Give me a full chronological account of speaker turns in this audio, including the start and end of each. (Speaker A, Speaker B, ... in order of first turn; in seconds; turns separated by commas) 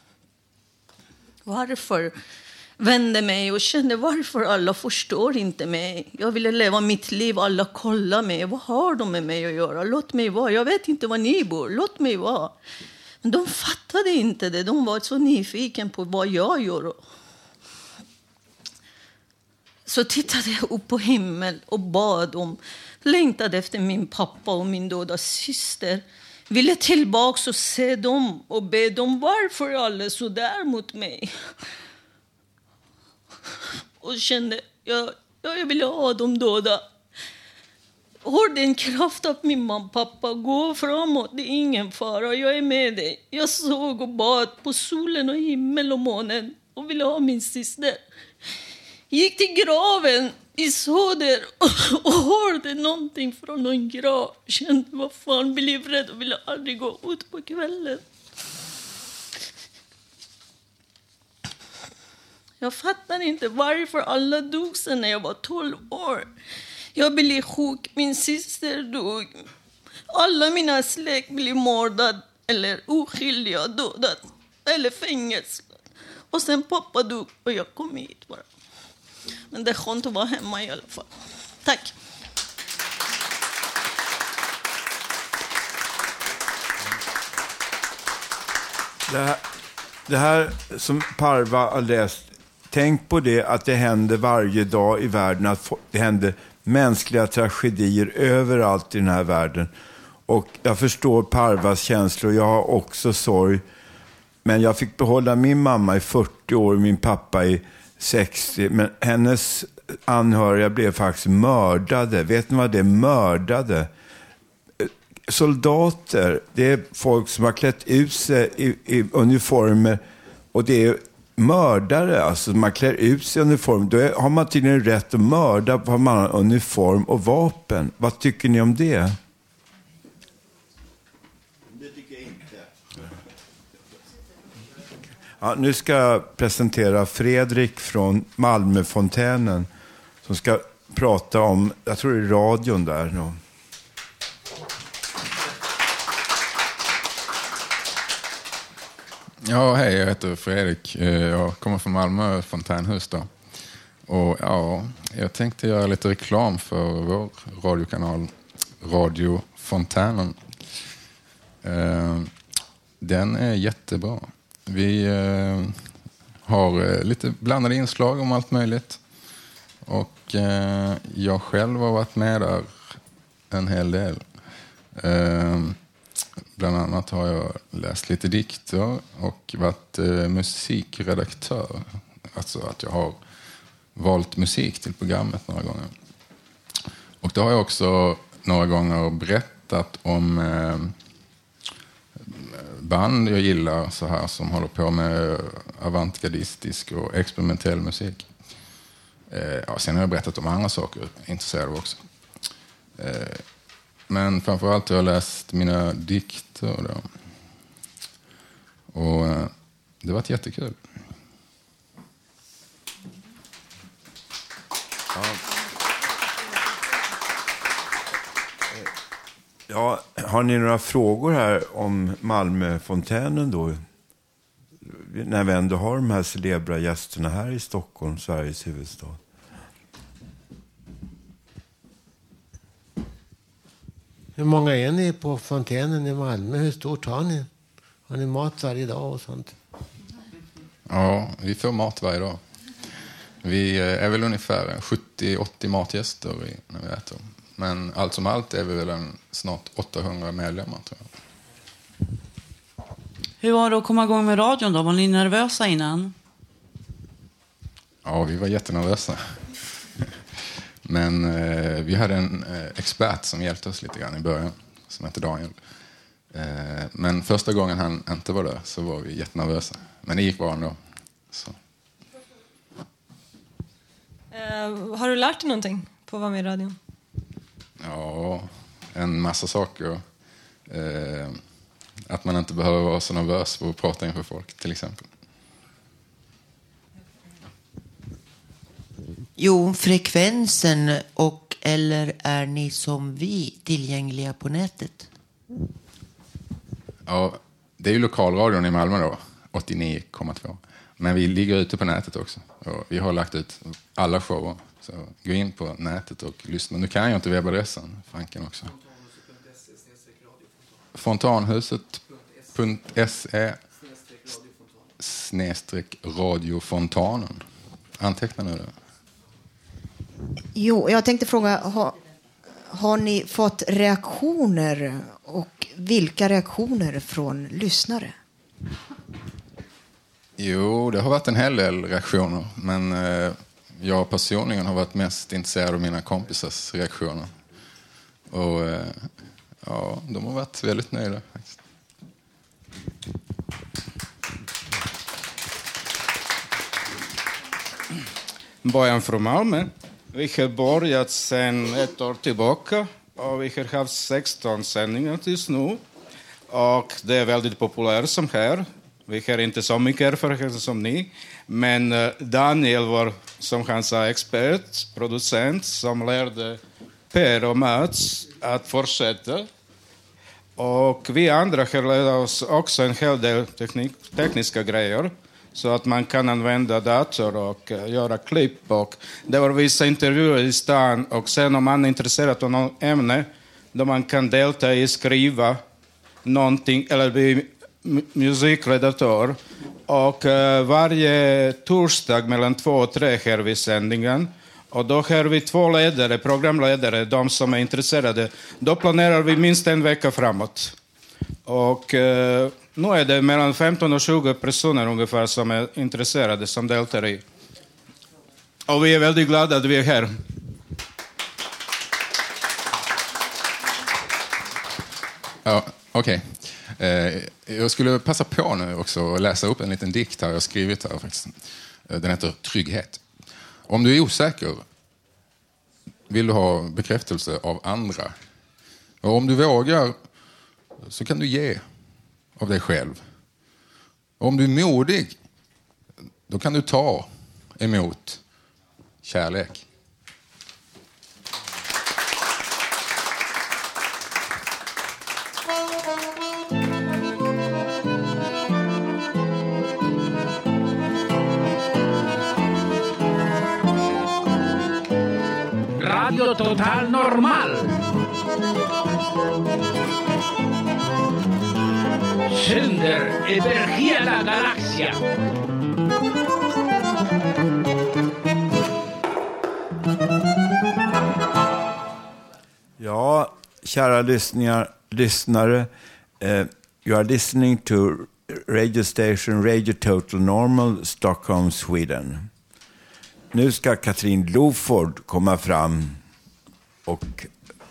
Speaker A: 1.4-2.1, Speaker A: 2.8-12.5, Speaker A: 13.2-17.0, Speaker A: 19.9-31.3, Speaker A: 34.0-36.8, Speaker A: 38.2-48.0, Speaker A: 49.1-58.0, Speaker A: 62.6-66.3, Speaker A: 66.9-69.5, Speaker A: 70.1-75.7, Speaker A: 76.3-78.4, Speaker A: 79.5-81.1, Speaker A: 81.6-81.9, Speaker B: 89.1-89.4, Speaker B: 90.1-99.7, Speaker B: 100.3-103.6, Speaker B: 104.4-113.9, Speaker B: 114.8-120.0, Speaker B: 120.5-129.2, Speaker B: 135.4-139.7, Speaker B: 140.2-143.4, Speaker C: 149.4-153.3, Speaker C: 154.0-160.8, Speaker C: 161.6-162.3, Speaker C: 163.0-169.0, Speaker C: 169.8-173.0, Speaker C: 173.5-174.3, Speaker C: 174.9-175.8, Speaker C: 176.6-183.2, Speaker C: 183.9-185.9, Speaker C: 187.2-191.0, Speaker C: 192.2-198.3, Speaker C: 199.3-202.1, Speaker C: 203.0-203.5, Speaker C: 204.1-207.3, Speaker C: 208.9-210.8, Speaker B: 219.7-223.8, Speaker B: 224.8-229.2, Speaker D: 234.3-237.5, Speaker D: 238.1-239.5, Speaker C: 240.9-242.4, Speaker C: 243.4-251.1, Speaker E: 253.4-256.1, Speaker C: 258.0-259.6, Speaker C: 260.8-265.6, Speaker C: 266.3-271.6, Speaker F: 274.6-276.6, Speaker C: 277.8-280.0, Speaker C: 280.6-281.4, Speaker C: 282.1-285.1, Speaker G: 289.4-295.1, Speaker C: 297.1-308.7, Speaker C: 310.9-313.6, Speaker C: 315.0-317.4, Speaker C: 318.0-318.7, Speaker H: 320.5-321.9, Speaker H: 322.7-328.1, Speaker C: 330.4-337.3, Speaker C: 338.3-341.6, Speaker I: 348.6-355.8, Speaker I: 356.5-366.6, Speaker I: 367.1-369.5, Speaker I: 370.6-385.6, Speaker I: 386.2-400.7, Speaker I: 401.4-407.2, Speaker I: 408.7-410.2, Speaker C: 415.4-423.0, Speaker C: 423.6-424.6, Speaker C: 426.1-428.1, Speaker C: 429.0-430.0, Speaker C: 430.8-431.6, Speaker C: 432.4-433.0, Speaker C: 434.2-435.2, Speaker C: 436.3-438.2, Speaker C: 439.0-439.6, Speaker J: 455.8-457.8, Speaker J: 462.3-465.0, Speaker B: 472.8-482.3, Speaker B: 483.3-486.0, Speaker B: 486.9-487.3